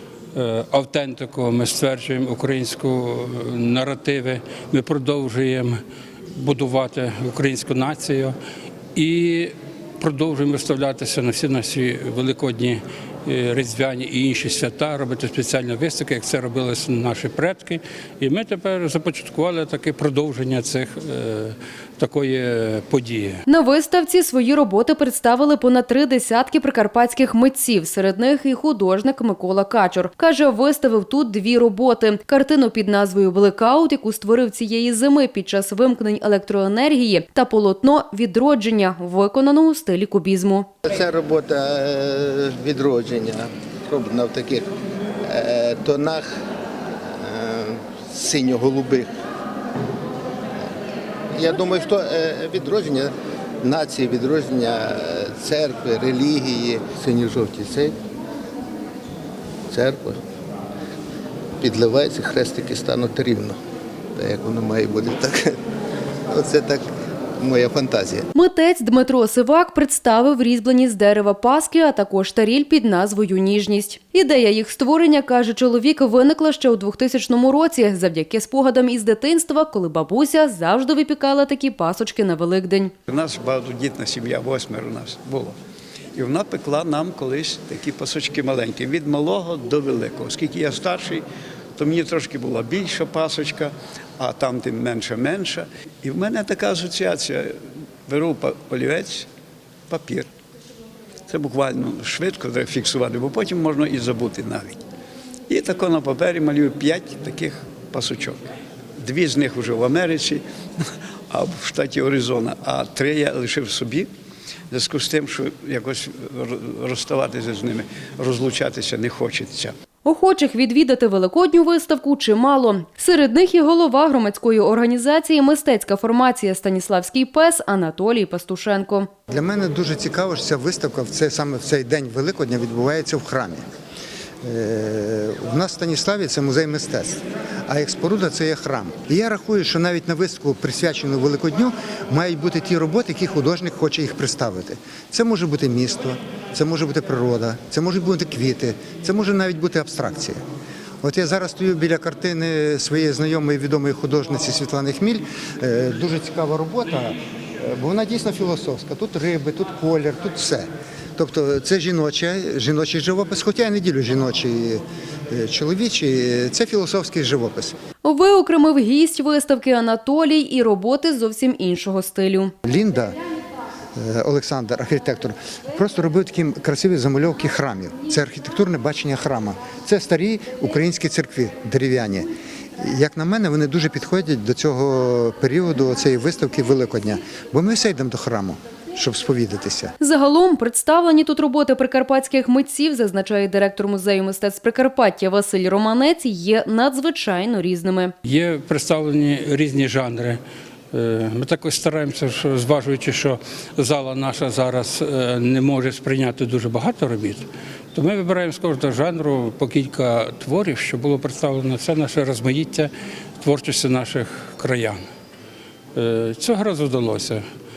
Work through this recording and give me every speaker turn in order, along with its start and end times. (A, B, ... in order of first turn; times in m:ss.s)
0:00.3-0:05.8 A
0:06.4-0:08.3 A
0:08.9-0:23.4 A
0:23.5-0:40.7 B
0:40.8-0:44.7 C
0:45.2-0:46.3 C
0:47.1-0:49.1 C
0:51.3-0:53.1 C
0:53.6-0:58.0 C
0:59.7-1:00.2 C
1:01.6-1:03.6 C
1:04.2-1:05.6 C
1:06.3-1:06.8 C
1:07.4-1:08.2 C
1:08.3-1:22.9 B
1:23.1-1:25.5 D
1:26.1-1:31.2 D
1:31.8-1:37.5 D
1:38.1-1:39.3 D
1:39.9-1:40.3 D
1:41.3-1:44.8 D
1:45.5-1:48.4 D
1:49.0-1:54.1 D
1:54.7-1:59.7 D
2:00.0-2:09.1 B
2:09.3-2:13.6 E
2:14.4-2:30.4 E
2:31.0-2:47.7 E
2:48.0-2:52.5 B
2:52.6-2:53.2 E
2:54.0-3:09.9 E
3:10.0-3:18.1 B
3:18.2-3:20.4 A
3:20.9-3:35.0 A
3:35.9-3:37.4 A